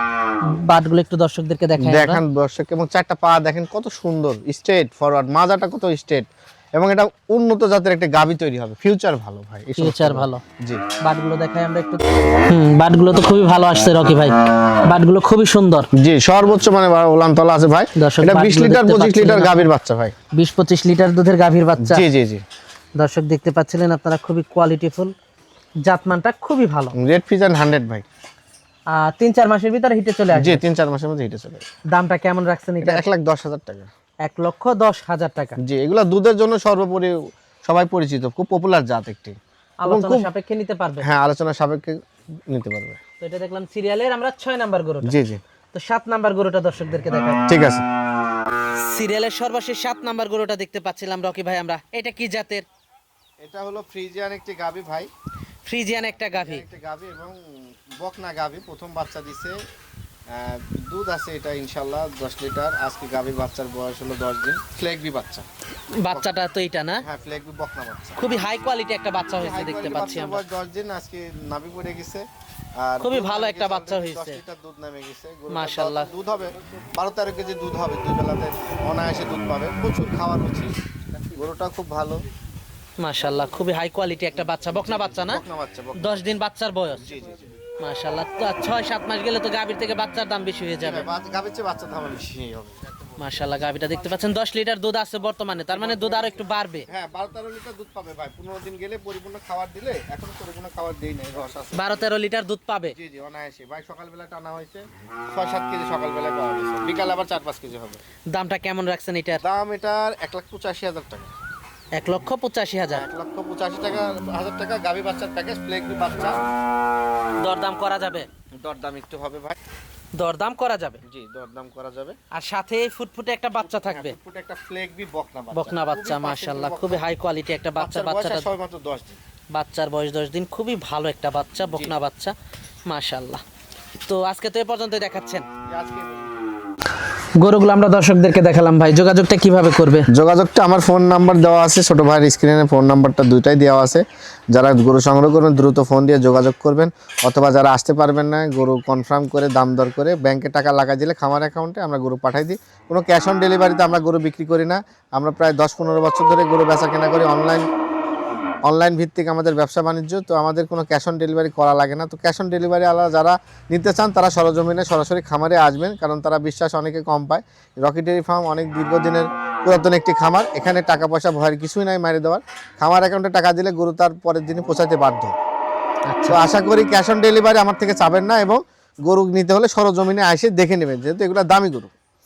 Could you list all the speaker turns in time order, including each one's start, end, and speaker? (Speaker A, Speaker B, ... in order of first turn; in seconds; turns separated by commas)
Speaker A: 0.4-2.2, Speaker B: 1.8-10.8, Speaker A: 9.8-10.4, Speaker A: 11.0-15.9, Speaker B: 15.9-20.1, Speaker A: 17.9-19.7, Speaker A: 20.3-22.1, Speaker B: 21.8-22.4, Speaker A: 23.0-25.1, Speaker A: 25.8-26.9, Speaker B: 26.9-28.0, Speaker A: 28.9-30.6, Speaker B: 30.3-31.6, Speaker A: 31.9-33.0, Speaker B: 32.8-33.9, Speaker A: 34.2-35.6, Speaker B: 35.6-40.3, Speaker A: 39.8-41.0, Speaker B: 41.0-42.0, Speaker B: 42.5-43.0, Speaker A: 43.2-45.2, Speaker B: 45.0-45.4, Speaker A: 45.7-47.4, Speaker B: 47.5-47.8, Speaker A: 48.8-52.6, Speaker B: 53.4-55.1, Speaker A: 55.6-56.6, Speaker B: 56.1-59.6, Speaker B: 60.3-65.5, Speaker A: 66.0-67.0, Speaker B: 67.0-68.2, Speaker A: 68.2-70.4, Speaker B: 69.4-72.2, Speaker B: 72.8-80.8, Speaker A: 73.0-74.4, Speaker A: 75.5-76.1, Speaker B: 81.3-82.2, Speaker A: 83.0-85.4, Speaker B: 84.7-86.3, Speaker A: 86.0-87.1, Speaker B: 87.0-87.4, Speaker A: 87.8-91.1, Speaker B: 90.8-92.8, Speaker A: 93.2-96.9, Speaker B: 95.7-102.1, Speaker A: 101.7-102.9, Speaker B: 102.9-108.0, Speaker A: 108.3-109.4, Speaker B: 109.4-111.3, Speaker A: 111.9-113.0, Speaker B: 112.9-116.4, Speaker A: 117.4-118.3, Speaker B: 118.6-119.6, Speaker A: 120.1-121.0, Speaker B: 121.0-122.2, Speaker A: 122.3-124.2, Speaker B: 123.6-127.0, Speaker A: 125.5-128.5, Speaker B: 127.8-129.2, Speaker A: 129.5-132.3, Speaker A: 132.9-133.4, Speaker A: 134.0-135.4, Speaker B: 135.7-136.3, Speaker A: 137.4-140.1, Speaker B: 140.1-157.7, Speaker B: 158.6-175.3, Speaker A: 176.1-176.4, Speaker B: 176.3-181.9